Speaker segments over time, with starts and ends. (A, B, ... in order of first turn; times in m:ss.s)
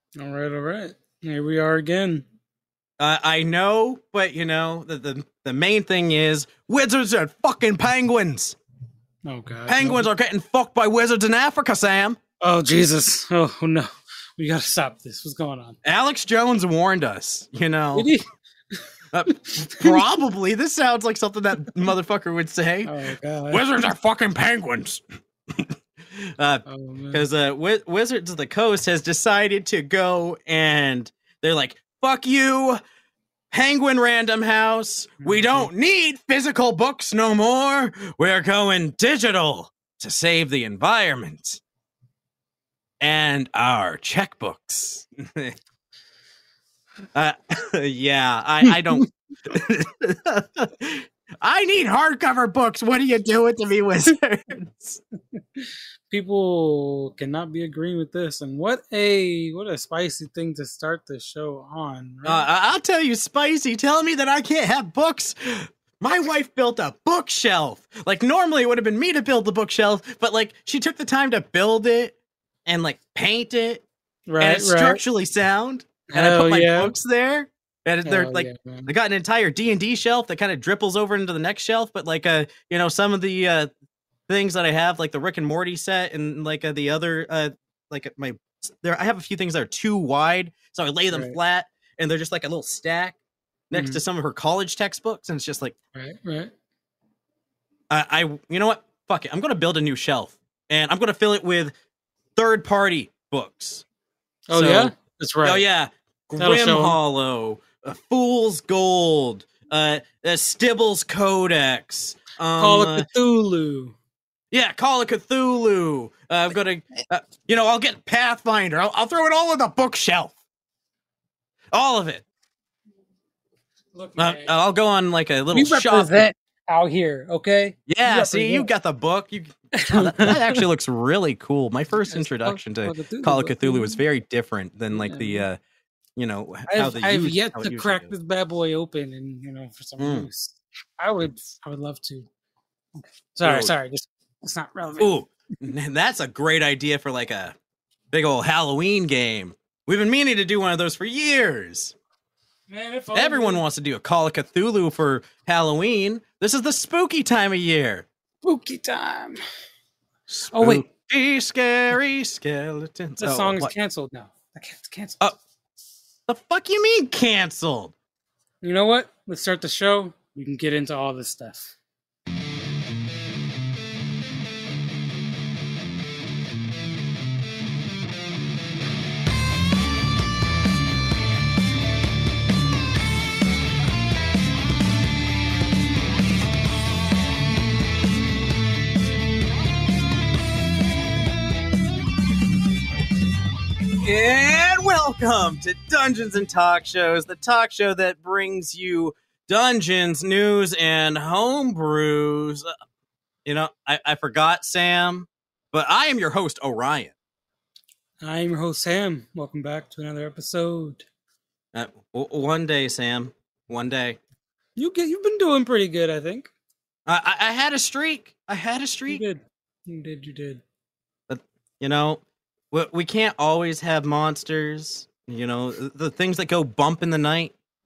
0:00.2-0:02.3 A
0:03.0-0:08.6 B
0:09.3-0:10.0 A
0:09.7-0:12.2 B
0:12.4-0:15.8 A
0:15.8-0:18.1 B
0:18.0-0:18.3 A
0:18.8-0:20.0 A
0:19.1-0:22.9 B
0:22.8-0:23.7 A
0:23.5-0:32.8 B
0:26.7-0:27.2 A
0:33.5-0:41.6 B
0:35.2-0:35.7 A
0:43.0-0:45.6 B
0:47.2-0:55.0 B
0:48.7-0:49.0 A
0:55.4-1:02.5 A
1:02.2-1:12.2 B
1:12.7-1:13.8 B
1:14.3-1:15.0 A
1:14.4-1:23.7 B
1:16.1-1:16.9 A
1:18.0-1:18.9 A
1:24.3-1:33.2 B
1:31.1-1:31.4 A
1:33.7-1:35.8 B
1:33.7-1:34.0 A
1:36.0-1:36.5 A
1:37.9-1:41.7 B
1:42.4-1:43.8 B
1:44.5-1:45.6 A
1:44.5-1:53.1 B
1:46.4-1:47.0 A
1:52.6-1:54.0 A
1:54.5-2:00.4 B
2:01.7-2:02.2 B
2:03.9-2:04.5 A
2:04.2-2:06.2 B
2:05.5-2:08.7 A
2:07.9-2:15.6 B
2:09.7-2:10.6 A
2:12.1-2:14.0 A
2:14.9-2:15.5 A
2:16.2-2:18.1 B
2:16.7-2:22.3 A
2:20.0-2:20.3 B
2:23.0-2:25.2 A
2:23.4-2:23.7 B
2:25.0-2:27.6 B
2:28.1-2:32.0 B
2:32.7-2:33.6 A
2:33.2-2:38.1 B
2:38.4-2:39.4 A
2:40.3-2:43.7 B
2:40.5-2:40.9 A
2:43.2-2:45.3 A
2:46.3-2:47.9 B
2:48.6-2:51.8 A
3:14.0-3:22.7 B
3:23.5-3:27.1 B
3:28.2-3:31.1 A
3:31.7-3:34.2 B
3:34.8-3:36.5 A
3:37.1-3:39.2 B
3:39.1-3:40.6 A
3:41.3-3:42.2 B
3:42.7-3:47.5 B